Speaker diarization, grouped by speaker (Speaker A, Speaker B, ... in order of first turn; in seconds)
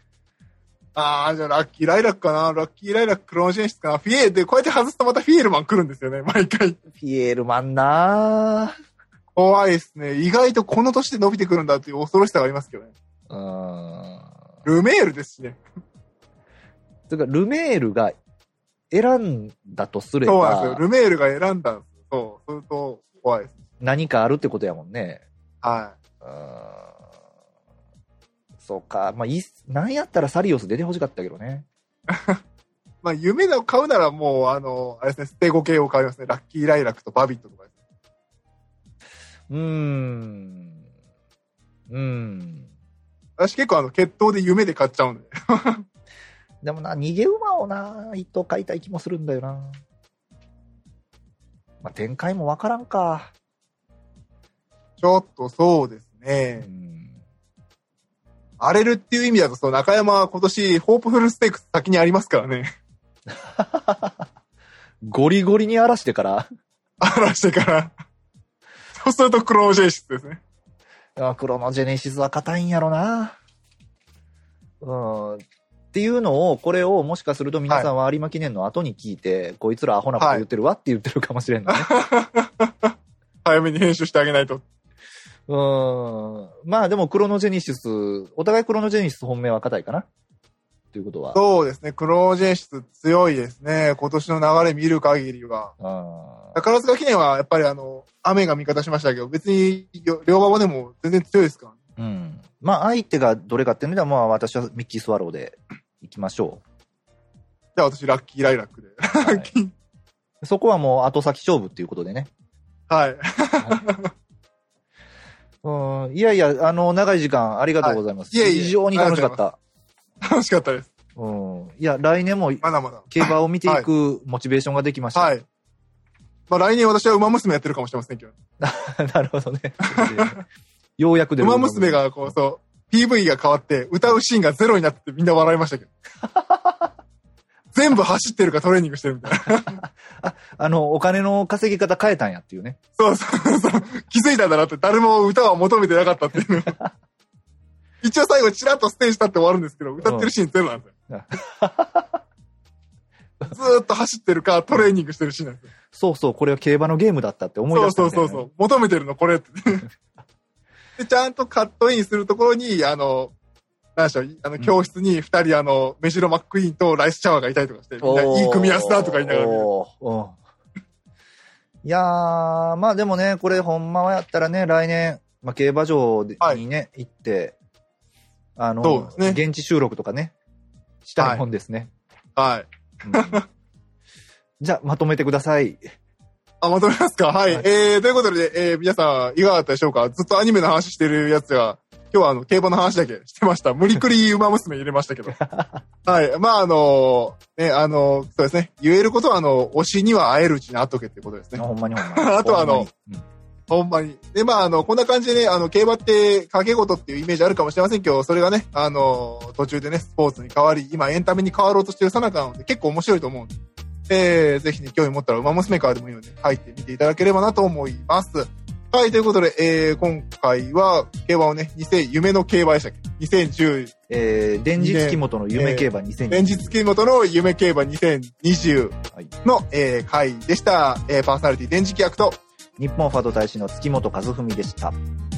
Speaker A: 0.9-6.8, 9.3-12.9, 14.6-15.6, 20.2-23.6, 25.6-25.9, 32.1-32.4, 33.0-37.7, 43.4-45.8, 55.0-56.7, 58.6-62.7, 67.0-67.9, 69.0-70.4, 80.2-80.4, 81.7-82.9, 83.4-84.6, 91.3-95.7, 96.5-101.8, 107.8-109.7, 112.9-114.1, 117.8-119.4, 120.2-120.9, 122.6-123.9, 125.1-125.4, 126.5-128.3, 129.9-130.4, 131.4-135.9, 137.7-139.8, 143.0-146.8, 148.0-150.9, 153.5-155.7, 157.7-159.8, 161.0-163.3, 163.9-169.7, 178.8-179.4, 181.2-181.4, 182.4-183.4, 186.6-195.4, 196.0-202.9, 203.7-213.5, 214.1-223.9, 224.8-232.4
Speaker B: 6.9-8.7, 13.3-14.3, 17.1-18.1, 18.9-20.8, 23.8-25.2, 26.2-26.9, 28.6-31.6, 39.5-40.8, 41.9-42.7, 46.6-49.8, 51.8-53.3, 56.6-57.2, 63.3-64.3, 65.0-66.5, 71.2-73.4, 74.8-81.9, 85.5-90.1, 90.9-91.4, 95.8-96.6, 102.0-106.6, 109.2-109.5, 110.4-112.3, 113.6-113.9, 115.6-119.6, 121.2-125.3, 128.6-130.4, 131.0-132.3, 136.2-136.9, 139.7-142.8, 150.0-150.3, 151.1-152.2, 155.9-158.5, 168.0-170.4, 171.8-177.6, 178.6-180.3, 181.0-181.9, 183.0-183.4, 184.6-185.8, 195.3-195.8, 201.6-203.2, 224.1-226.7, 232.8-234.9